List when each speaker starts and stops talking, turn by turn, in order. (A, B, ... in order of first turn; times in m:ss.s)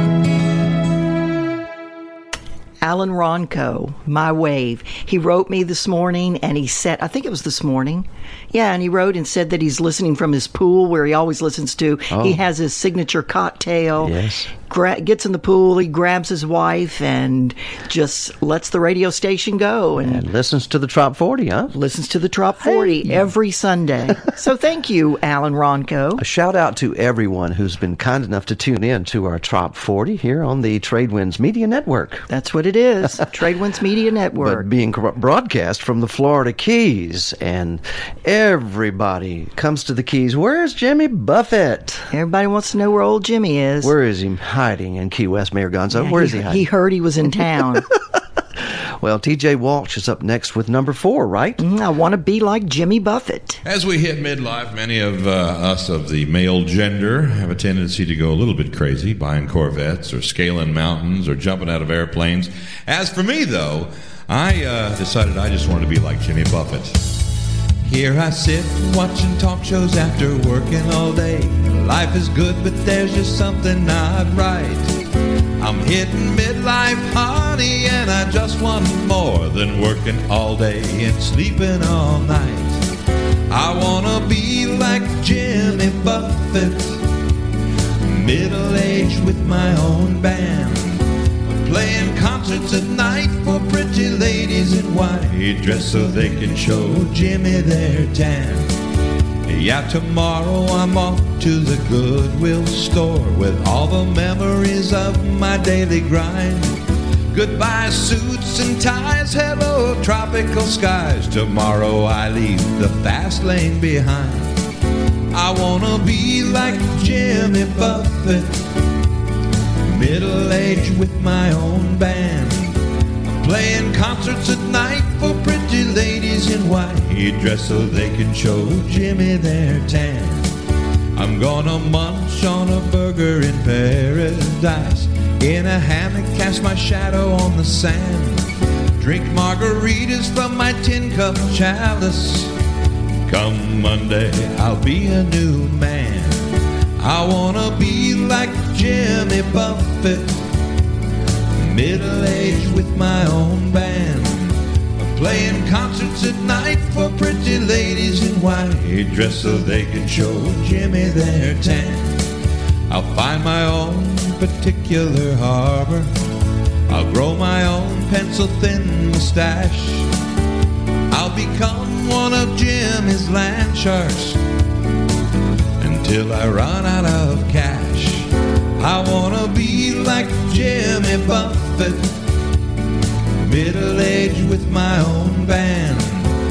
0:02.8-0:14.1 A
0:12.1-0:12.4 B
0:14.0-0:14.5 B
0:14.7-0:20.2 A
0:20.0-0:21.7 B
0:21.7-0:26.2 A
0:22.7-0:23.0 B
0:26.2-0:32.2 B
0:32.3-0:34.7 A
0:34.4-0:42.1 B
0:42.1-0:43.9 A
0:43.8-0:46.7 B
0:45.9-0:47.8 A
0:49.0-0:51.6 B
0:51.6-0:53.6 A
0:53.6-1:07.0 C
1:07.8-1:14.9 C
1:15.6-1:22.8 C
1:23.5-1:27.0 C
1:28.0-1:38.7 C
1:39.4-1:46.8 C
1:47.3-1:54.5 C
1:55.3-1:58.5 C
1:59.9-2:10.5 C
2:11.2-2:18.4 C
2:19.0-2:22.5 C
2:23.3-2:26.4 C
2:27.0-2:30.4 C
2:31.6-2:42.2 C
2:42.9-2:46.1 C
2:46.9-2:50.1 C
2:51.1-2:54.4 C
2:55.8-3:02.0 C
3:03.4-3:06.3 C